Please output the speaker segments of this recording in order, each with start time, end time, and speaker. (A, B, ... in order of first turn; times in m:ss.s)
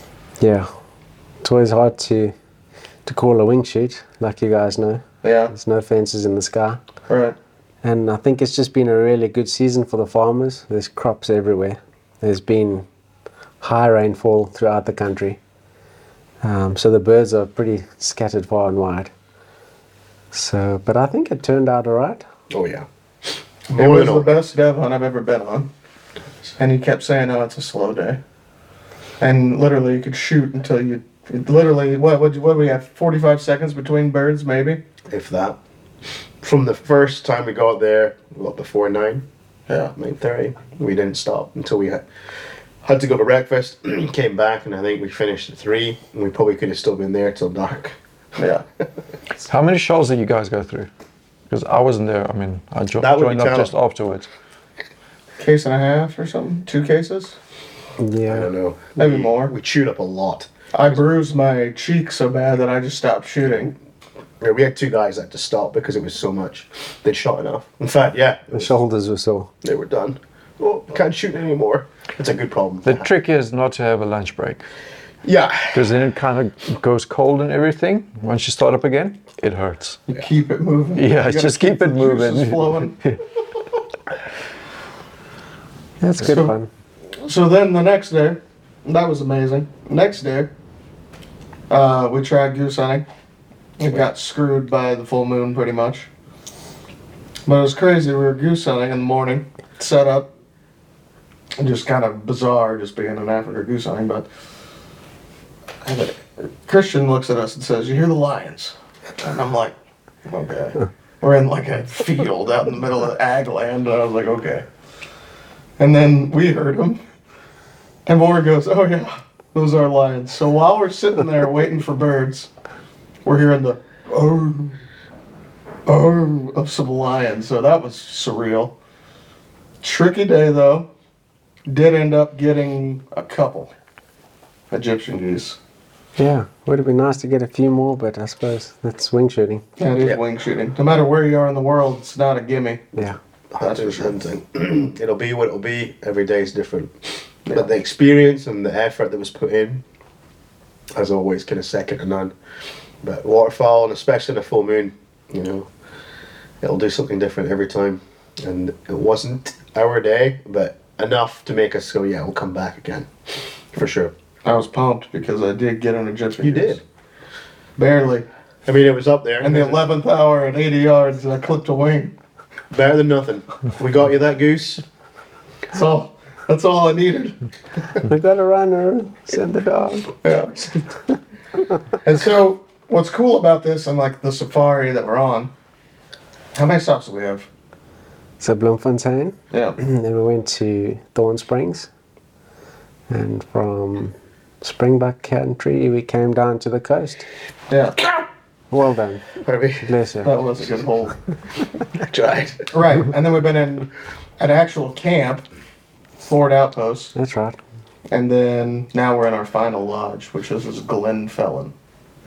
0:00.4-0:00.7 A
0:01.4-0:02.4 A
0:03.0-0:06.8 A
0:05.2-0:05.5 B
0:07.1-0:07.4 B
0:07.8-0:12.9 A
0:13.6-0:15.4 A
0:16.4-0:19.1 A
0:20.3-0:22.3 A
0:22.5-0:22.9 C
0:23.7-0:24.4 C
0:23.7-0:25.7 B
0:26.6-0:28.2 B
0:29.2-0:34.8 B
0:35.1-0:35.6 C
0:36.4-0:39.2 C
0:39.7-0:39.9 B
0:40.0-0:42.0 C
0:42.8-0:48.0 C
0:48.4-0:48.6 B
0:49.4-0:50.9 D
0:51.5-0:54.3 D
0:53.0-0:53.7 C
0:55.4-0:57.4 B
0:58.0-0:58.5 A
0:58.3-1:01.0 C
0:59.0-0:59.5 B
1:00.7-1:03.7 B
1:04.4-1:08.7 C
1:08.5-1:09.5 A
1:09.6-1:13.1 C
1:12.8-1:14.7 D
1:15.2-1:16.0 C
1:15.7-1:20.0 D
1:20.1-1:23.1 B
1:20.9-1:23.2 D
1:26.0-1:26.7 A
1:26.2-1:26.5 B
1:27.2-1:30.5 B
1:31.7-1:33.1 B
1:33.8-1:36.1 B
1:37.5-1:40.3 B
1:41.6-1:44.3 B
1:45.8-1:49.8 B
1:50.3-1:54.7 B
1:55.8-1:57.0 B
1:58.1-2:02.5 B
2:03.2-2:04.8 B
2:05.9-2:08.8 B
2:09.8-2:10.9 B
2:11.7-2:13.7 B
2:14.7-2:15.6 B
2:16.2-2:19.6 A
2:19.8-2:23.0 B
2:23.5-2:29.8 C
2:23.6-2:24.2 B
2:30.9-2:32.3 C
2:33.0-2:35.7 C
2:36.6-2:43.1 C
2:43.7-2:44.1 C
2:44.4-2:46.8 B
2:46.4-2:46.8 C
2:47.8-2:48.3 B
2:48.7-2:49.8 C
2:49.4-2:52.1 B
2:52.7-2:54.8 C
2:55.7-2:57.4 B
2:58.0-3:00.2 A
3:00.2-3:00.7 B
3:02.0-3:05.5 B
3:06.5-3:07.5 B
3:08.4-3:11.9 A
3:09.5-3:09.8 B
3:13.1-3:17.3 A
3:17.7-3:18.0 B
3:18.7-3:19.3 A
3:19.4-3:19.9 C
3:19.8-3:20.3 A
3:20.2-3:21.2 B
3:22.0-3:22.7 C
3:22.7-3:25.4 B
3:26.2-3:27.1 B
3:27.2-3:27.6 A
3:28.1-3:31.7 B